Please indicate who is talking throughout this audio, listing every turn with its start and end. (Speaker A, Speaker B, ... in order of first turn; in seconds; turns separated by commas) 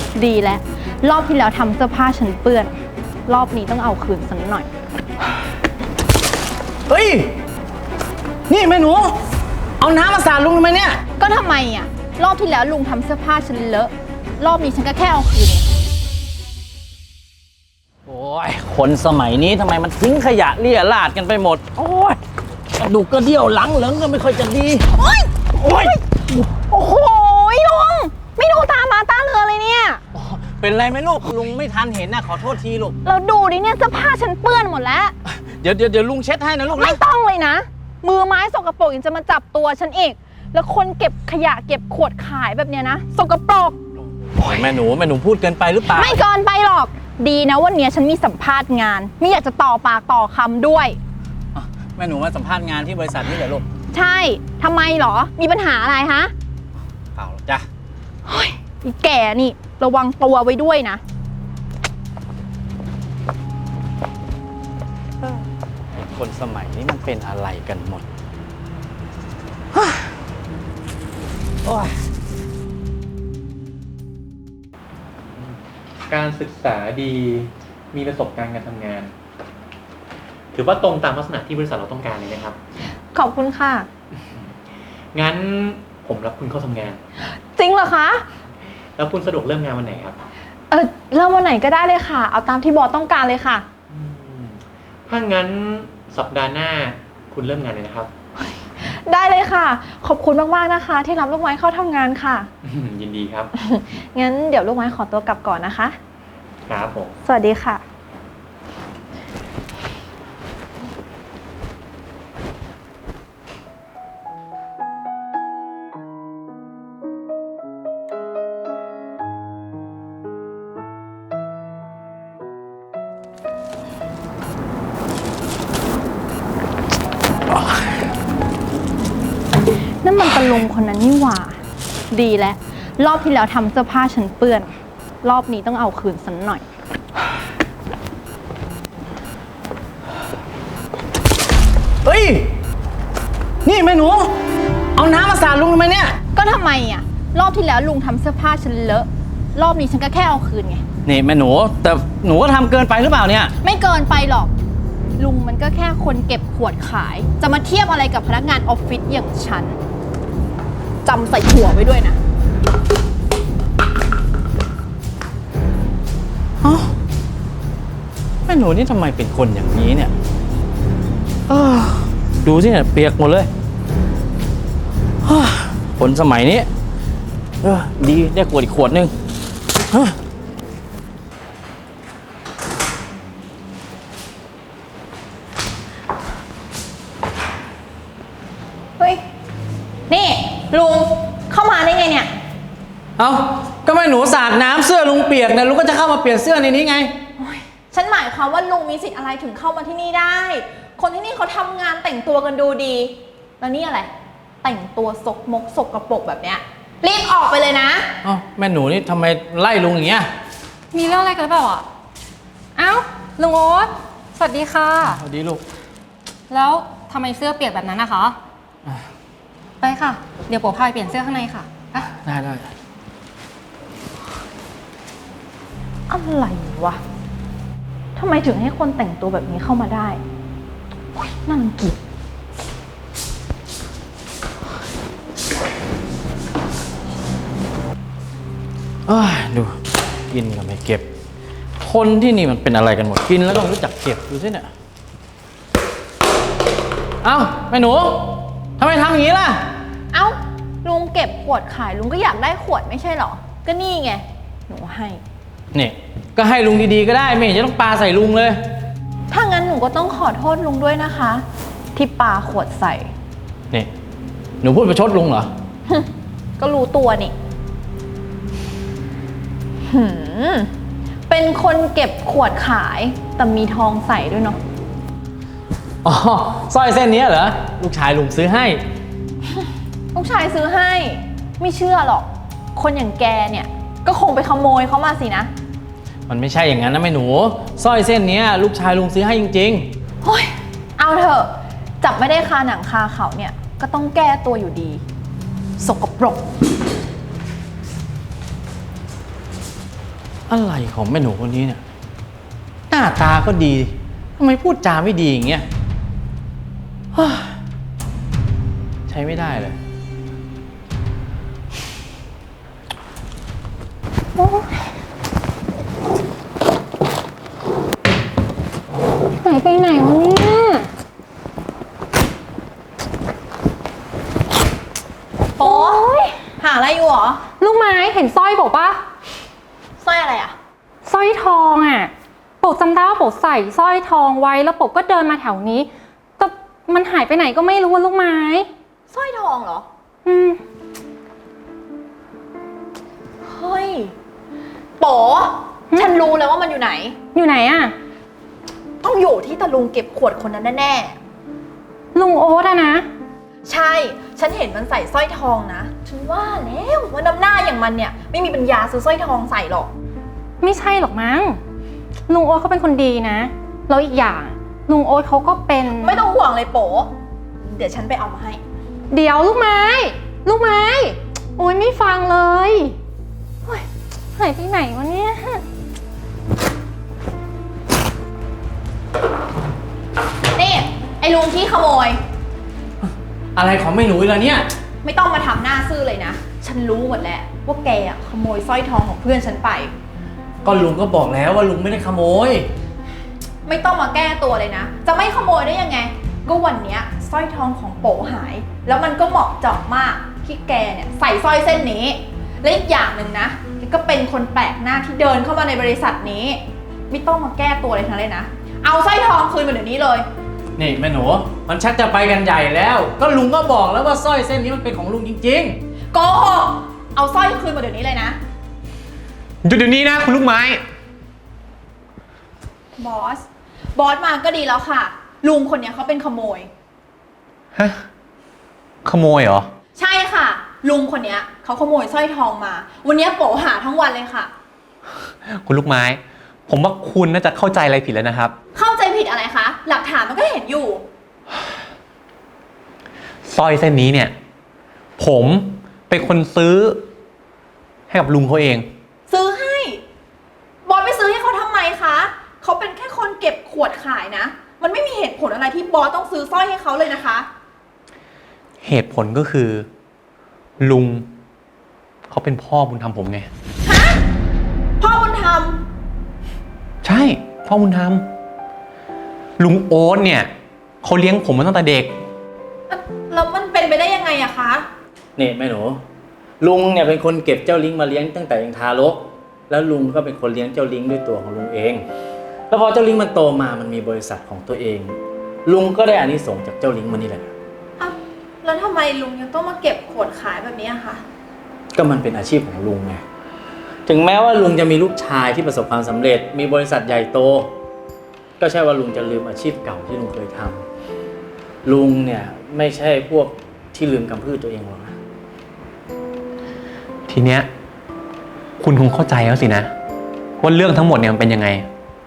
Speaker A: 0.1-2.7, Speaker A: 3.3-4.7, Speaker B: 6.9-7.3, Speaker B: 8.5-9.2, Speaker B: 9.8-11.0, Speaker A: 11.2-15.7, Speaker B: 18.1-22.2, Speaker B: 22.7-24.9, Speaker A: 25.0-30.0, Speaker B: 25.6-26.0, Speaker B: 30.1-33.0, Speaker A: 33.0-35.1, Speaker B: 35.2-37.0, Speaker A: 36.7-43.8, Speaker B: 44.3-46.2, Speaker A: 45.9-51.0, Speaker B: 51.5-53.6, Speaker A: 53.9-56.3, Speaker B: 57.1-57.6, Speaker A: 58.2-61.0, Speaker B: 66.1-68.0, Speaker B: 69.8-70.1, Speaker B: 71.7-72.0, Speaker C: 75.4-79.1, Speaker C: 80.5-82.6, Speaker A: 83.1-83.9, Speaker C: 85.1-87.0, Speaker A: 87.3-88.2, Speaker C: 89.0-90.2, Speaker A: 90.7-93.7, Speaker C: 93.9-98.1, Speaker A: 98.8-102.5, Speaker C: 102.6-103.5, Speaker A: 103.5-106.0, Speaker C: 106.7-107.1, Speaker A: 107.2-107.8, Speaker A: 130.0-131.6, Speaker A: 132.1-136.7, Speaker B: 142.0-142.5, Speaker B: 143.7-144.3, Speaker B: 144.9-146.2, Speaker A: 146.3-150.8, Speaker B: 151.1-153.5, Speaker A: 153.6-154.5, Speaker A: 155.2-159.8, Speaker A: 161.0-162.2, Speaker B: 166.6-166.9, Speaker B: 168.5-170.1, Speaker B: 171.5-173.5, Speaker B: 175.2-176.7, Speaker B: 177.6-179.1, Speaker B: 179.9-180.2, Speaker A: 190.1-192.3, Speaker B: 193.2-197.1, Speaker A: 197.4-204.1, Speaker A: 204.6-208.1, Speaker B: 208.2-210.3, Speaker D: 210.9-211.9, Speaker D: 212.8-215.2, Speaker B: 215.0-215.6, Speaker D: 216.5-218.4, Speaker D: 219.8-222.1, Speaker B: 222.1-222.7, Speaker A: 226.1-227.0, Speaker A: 228.2-230.2, Speaker A: 231.2-232.0, Speaker B: 239.1-239.8, Speaker B: 240.3-241.1, Speaker B: 241.8-244.7, Speaker B: 247.2-249.7, Speaker A: 250.1-255.2, Speaker B: 255.7-258.6, Speaker A: 259.3-263.1, Speaker B: 264.6-265.5, Speaker A: 265.9-267.3, Speaker A: 269.9-270.7, Speaker A: 271.3-274.6, Speaker B: 276.0-278.8, Speaker A: 280.1-285.5, Speaker B: 286.3-289.9, Speaker A: 290.2-295.0, Speaker A: 295.8-296.4, Speaker B: 300.5-301.8, Speaker B: 302.9-305.6, Speaker B: 307.1-307.6, Speaker B: 309.1-309.8, Speaker D: 314.4-314.9, Speaker D: 319.4-320.9, Speaker A: 325.6-327.4, Speaker D: 325.6-326.4, Speaker D: 327.6-329.0, Speaker A: 330.0-330.6, Speaker D: 331.1-338.7, Speaker A: 339.1-339.9, Speaker D: 340.2-340.6, Speaker A: 343.4-344.1, Speaker A: 345.0-347.2, Speaker D: 347.3-347.9, Speaker A: 349.0-351.2, Speaker D: 352.1-353.1, Speaker A: 353.7-359.9, Speaker D: 360.6-361.6, Speaker D: 362.3-366.2, Speaker A: 366.0-368.6, Speaker D: 369.1-373.0, Speaker D: 373.7-375.6, Speaker A: 380.6-382.2, Speaker B: 383.0-384.7, Speaker A: 385.0-389.9, Speaker B: 390.6-392.7, Speaker A: 393.6-410.2, Speaker B: 410.8-415.8, Speaker A: 416.1-418.4, Speaker C: 419.6-420.8, Speaker A: 422.9-426.7, Speaker C: 427.8-428.1, Speaker C: 429.1-429.7, Speaker A: 429.9-434.5, Speaker C: 435.4-438.6, Speaker A: 438.8-441.0, Speaker C: 443.4-444.4, Speaker C: 445.2-447.1, Speaker C: 448.1-448.9, Speaker A: 449.3-450.0, Speaker A: 450.9-457.5, Speaker C: 458.8-459.9, Speaker C: 460.8-461.3, Speaker C: 462.3-463.5, Speaker A: 463.8-464.2, Speaker A: 465.0-465.8, Speaker C: 467.0-468.3, Speaker C: 469.6-470.5, Speaker C: 471.0-472.1, Speaker A: 472.9-474.9, Speaker B: 475.4-476.0, Speaker B: 476.6-482.1, Speaker B: 482.7-487.5, Speaker A: 488.0-491.2, Speaker B: 491.9-493.2, Speaker B: 494.1-497.7, Speaker B: 498.6-500.9, Speaker B: 501.8-505.2, Speaker C: 507.3-507.7, Speaker C: 508.8-509.9, Speaker C: 510.6-511.9